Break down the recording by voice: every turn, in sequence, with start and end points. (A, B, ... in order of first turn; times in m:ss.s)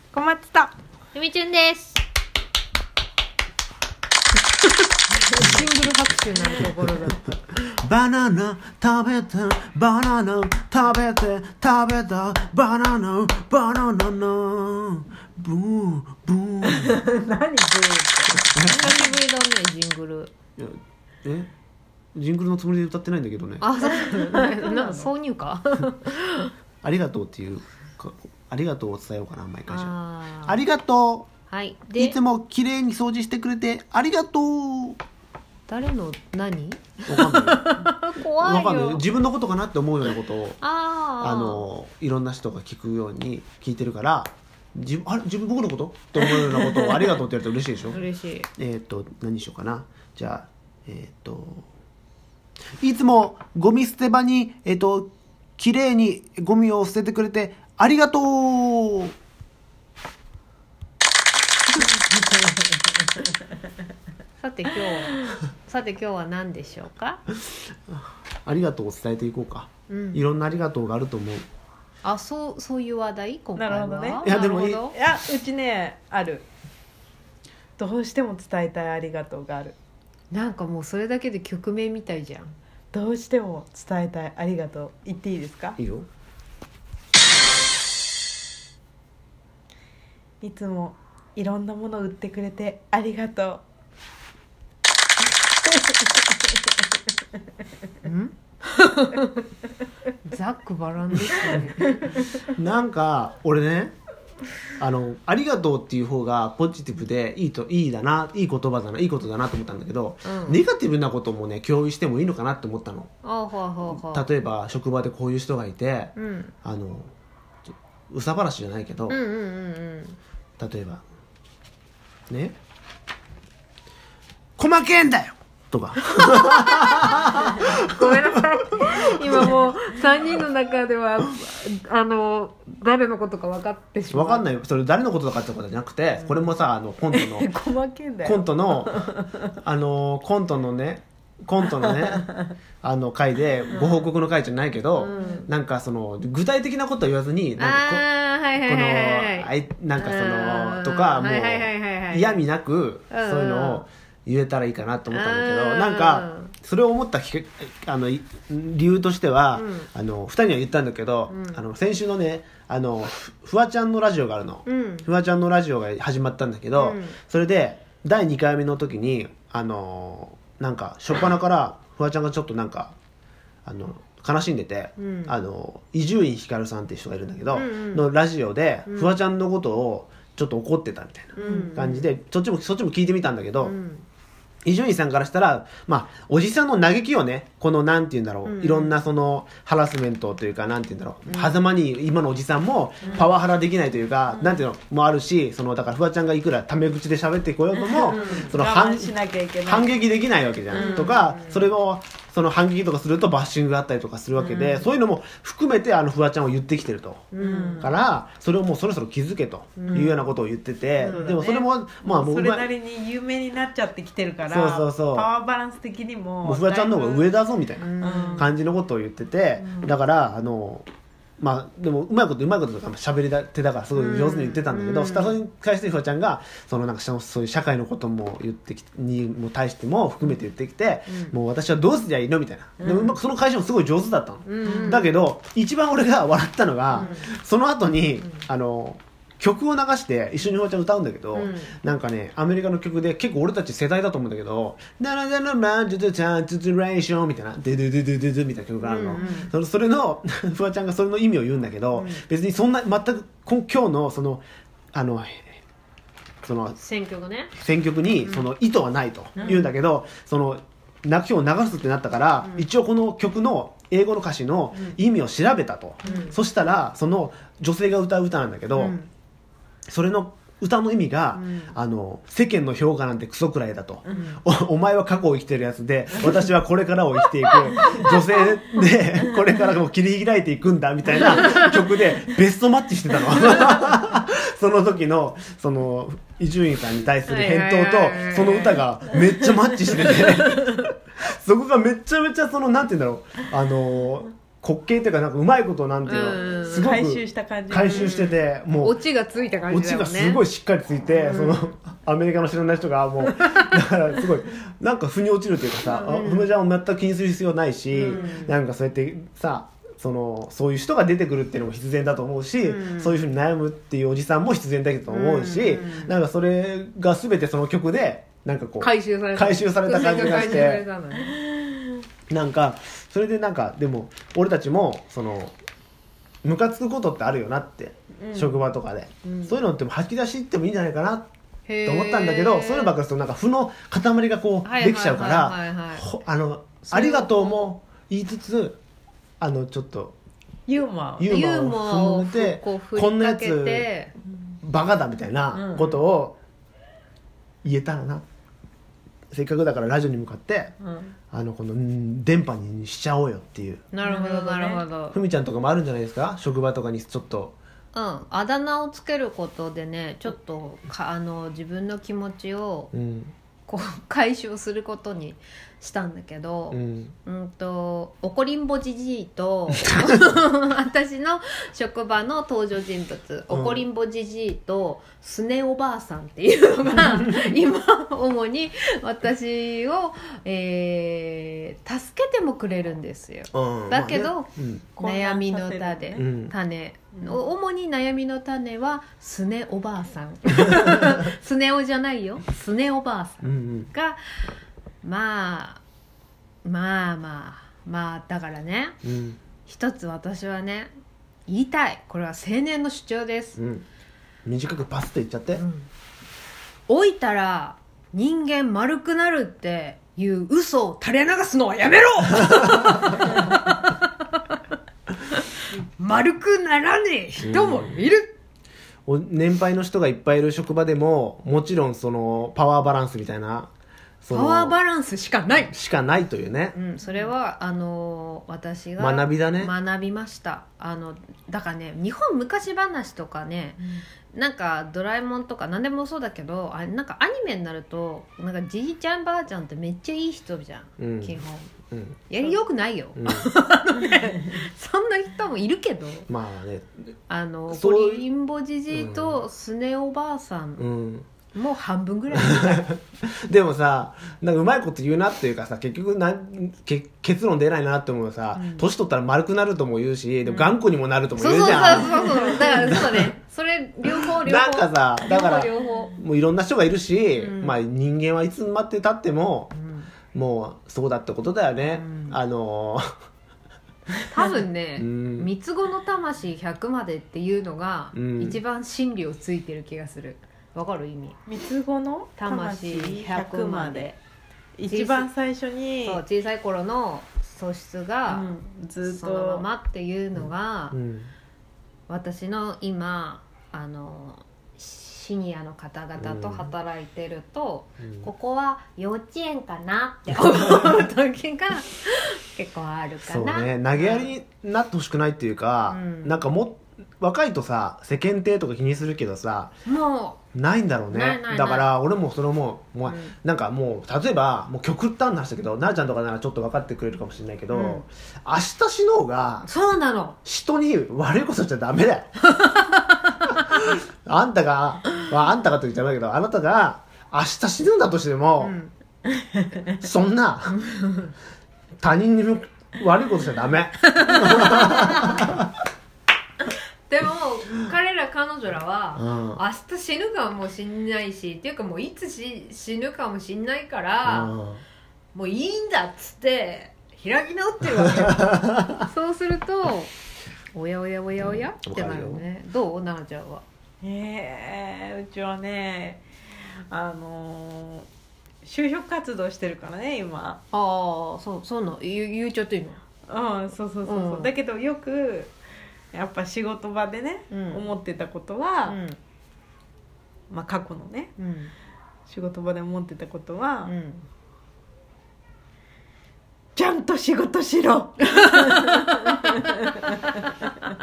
0:00.1-0:00.7 A
0:01.1-0:02.0 B
0:05.3-0:05.6 A
0:05.3-0:07.2 B
0:06.6-0:07.1 A
0:07.6-0:17.0 C
0:16.6-0:19.1 A
0:18.4-0:18.9 C
0:18.6-0:20.3 B
0:20.6-0:21.5 C
0:22.1-0:23.7 C
0:23.6-0:26.5 B
0:23.8-0:25.1 A
0:26.8-0:29.9 C
0:29.7-0:30.6 B
0:30.4-0:31.3 C
0:31.5-0:32.2 B
0:31.9-0:35.0 C
0:35.7-0:39.0 B
0:37.1-0:40.6 C
0:40.6-0:41.6 B
0:41.2-0:48.0 C
0:46.2-0:47.2 A
0:47.9-0:48.5 B
0:48.6-0:51.7 C
0:52.8-0:59.2 C
1:01.8-1:02.5 A
1:04.4-1:07.2 B
1:07.9-1:11.5 C
1:09.9-1:10.2 B
1:12.0-1:14.9 B
1:13.6-1:14.3 A
1:14.2-1:14.8 C
1:14.9-1:16.4 A
1:17.8-1:19.7 A
1:20.3-1:22.5 B
1:22.9-1:25.8 A
1:25.8-1:26.1 C
1:30.4-1:33.6 A
1:35.7-1:36.0 A
1:38.0-1:39.4 B
1:40.2-1:42.2 B
1:42.4-1:43.9 C
1:44.8-1:53.1 C
1:50.2-1:50.6 B
1:53.2-1:54.3 B
1:53.9-1:57.1 C
1:56.2-1:56.5 B
1:58.1-1:59.2 C
1:59.1-2:00.2 B
2:00.6-2:01.0 C
2:02.3-2:02.6 C
2:04.6-2:09.5 C
2:06.3-2:14.5 B
2:14.1-2:17.5 C
2:16.2-2:16.5 B
2:17.1-2:19.5 A
2:18.2-2:22.3 C
2:21.8-2:22.4 A
2:22.8-2:28.0 C
2:23.7-2:24.1 B
2:24.9-2:25.5 B
2:25.1-2:25.4 A
2:27.6-2:32.4 B
2:28.6-2:52.9 C
2:33.1-2:33.8 B
2:35.1-2:36.5 B
2:39.5-2:39.9 B
2:41.3-2:41.6 B
2:44.6-2:45.1 B
2:46.7-2:47.2 B
2:53.6-3:03.7 C
2:55.0-2:55.3 B
2:57.5-2:58.1 B
2:58.8-2:59.2 B
3:01.4-3:02.1 B
3:03.6-3:04.0 B
3:04.6-3:19.1 C
3:08.4-3:09.0 B
3:11.2-3:11.5 B
3:13.0-3:13.3 A
3:14.3-3:14.6 A
3:17.7-3:19.9 A
3:18.0-3:18.6 B
3:19.6-3:32.7 C
3:20.7-3:21.2 A
3:20.7-3:21.7 B
3:24.3-3:24.9 A
3:27.3-3:27.9 B
3:27.4-3:27.9 A
3:29.8-3:30.2 B
3:31.0-3:31.6 B
3:31.0-3:37.4 A
3:34.5-3:35.3 C
3:36.4-3:40.9 C
3:37.8-3:38.5 B
3:38.0-3:38.5 A
3:41.4-4:15.6 C
3:43.9-3:45.4 B
3:51.1-3:51.4 B
3:52.8-3:53.2 A
3:54.4-3:55.1 B
3:54.6-3:55.0 A
3:56.9-3:57.3 B
4:01.3-4:01.7 B
4:08.8-4:09.5 B
4:11.9-4:12.2 B
4:16.4-4:16.8 C
4:16.8-4:17.5 B
4:17.6-4:29.0 C
4:18.2-4:18.5 B
4:19.4-4:19.6 A
4:22.4-4:22.7 B
4:26.0-4:26.4 B
4:28.7-4:29.1 B
4:29.9-4:59.0 C
4:31.3-4:31.7 B
4:34.1-4:34.4 B
4:37.6-4:38.1 B
4:47.3-4:50.8 B
4:56.0-4:57.0 B
4:56.5-4:58.2 A
4:57.8-5:00.4 B
4:59.7-5:20.8 C
5:01.2-5:01.7 B
5:03.2-5:03.8 B
5:05.9-5:06.5 B
5:07.9-5:08.5 B
5:12.6-5:13.2 B
5:15.1-5:16.1 B
5:18.8-5:21.4 B
5:21.3-5:21.8 A
5:22.3-5:25.5 C
5:26.4-5:31.3 C
5:28.2-5:28.6 A
5:29.2-5:29.6 B
5:31.7-5:33.0 B
5:31.8-5:38.8 C
5:34.6-5:36.1 B
5:36.8-5:37.6 B
5:39.4-5:40.2 C
5:40.7-5:41.3 A
5:41.2-5:43.9 C
5:41.3-5:44.1 B
5:44.6-5:46.4 C
5:45.5-5:46.0 A
5:47.6-5:48.2 C
5:49.3-5:50.7 C
5:50.8-5:51.1 A
5:51.3-5:53.8 C
5:53.9-5:55.2 B
5:54.0-5:54.8 A
5:55.1-5:57.5 C
5:57.9-6:02.9 B
6:02.9-6:03.3 C
6:03.7-6:34.2 B
6:06.7-6:07.1 C
6:13.5-6:13.8 C
6:23.5-6:24.9 C
6:25.0-6:26.2 A
6:26.2-6:26.5 C
6:27.1-6:27.5 A
6:33.4-6:33.9 C
6:35.0-6:35.8 B
6:36.6-6:39.0 B
6:39.0-6:39.4 C
6:39.6-6:40.9 B
6:41.5-6:43.6 B
6:43.6-6:43.8 C
6:44.4-6:45.6 C
6:45.5-6:45.9 B
6:46.9-6:54.1 B
6:55.7-6:58.3 B
6:57.4-6:58.0 C
6:59.0-7:03.7 C
7:04.2-7:04.8 C
7:04.3-7:05.7 B
7:05.7-7:06.8 C
7:06.7-7:21.7 B
7:07.0-7:07.3 A
7:09.0-7:09.7 C
7:13.8-7:14.0 A
7:21.0-7:21.4 C
7:21.9-7:22.2 C
7:22.3-7:26.3 B
7:23.2-7:23.5 C
7:26.3-7:26.9 C
7:27.3-7:30.9 B
7:27.7-7:28.3 C
7:28.9-7:29.4 C
7:30.8-7:31.3 C
7:31.5-7:32.9 B
7:32.3-7:43.3 C
7:38.6-7:38.8 B
7:40.4-7:40.8 B
7:41.4-7:46.2 B
7:44.0-7:49.7 C
7:47.3-7:47.8 B
7:49.7-7:50.1 B
7:50.3-7:53.0 C
7:51.9-7:52.4 B
7:54.3-8:01.4 B
7:55.0-7:55.5 C
7:58.1-7:58.6 C
8:01.5-8:04.2 A
8:02.4-8:04.1 B
8:04.8-8:06.2 A
8:04.9-8:05.3 B
8:06.0-8:08.5 B
8:08.3-8:09.6 A
8:09.0-8:11.0 B
8:10.4-8:11.3 C
8:12.1-8:24.3 B
8:16.2-8:16.7 C
8:23.3-8:29.7 C
8:25.9-8:26.4 B
8:29.8-8:30.4 B
8:30.5-8:39.7 C
8:31.1-8:31.9 B
8:33.0-8:33.3 B
8:37.7-8:38.0 B
8:39.6-8:40.4 B
8:40.4-8:42.3 C
8:42.4-8:43.3 B
8:43.7-8:48.7 C
8:48.6-8:48.9 B
8:49.9-8:50.8 C
8:50.8-8:51.3 B
8:52.0-8:55.6 C
8:54.0-8:55.5 B
8:57.1-9:04.5 B
8:59.2-8:59.6 C
9:04.2-9:04.8 C
9:05.3-9:10.1 B
9:08.4-9:08.7 C
9:10.7-9:13.6 B
9:11.4-9:12.4 C
9:14.0-9:16.2 A
9:16.9-9:18.1 A
9:18.6-9:20.6 A
9:20.7-9:23.0 B
9:23.3-9:25.5 A
9:24.0-9:24.5 B
9:26.1-9:29.0 A
9:27.5-9:27.9 B
9:28.9-9:29.2 B
9:30.5-9:31.3 A
9:31.4-9:31.7 B
9:32.3-9:33.9 A
9:33.8-9:34.3 B
9:36.8-9:40.2 A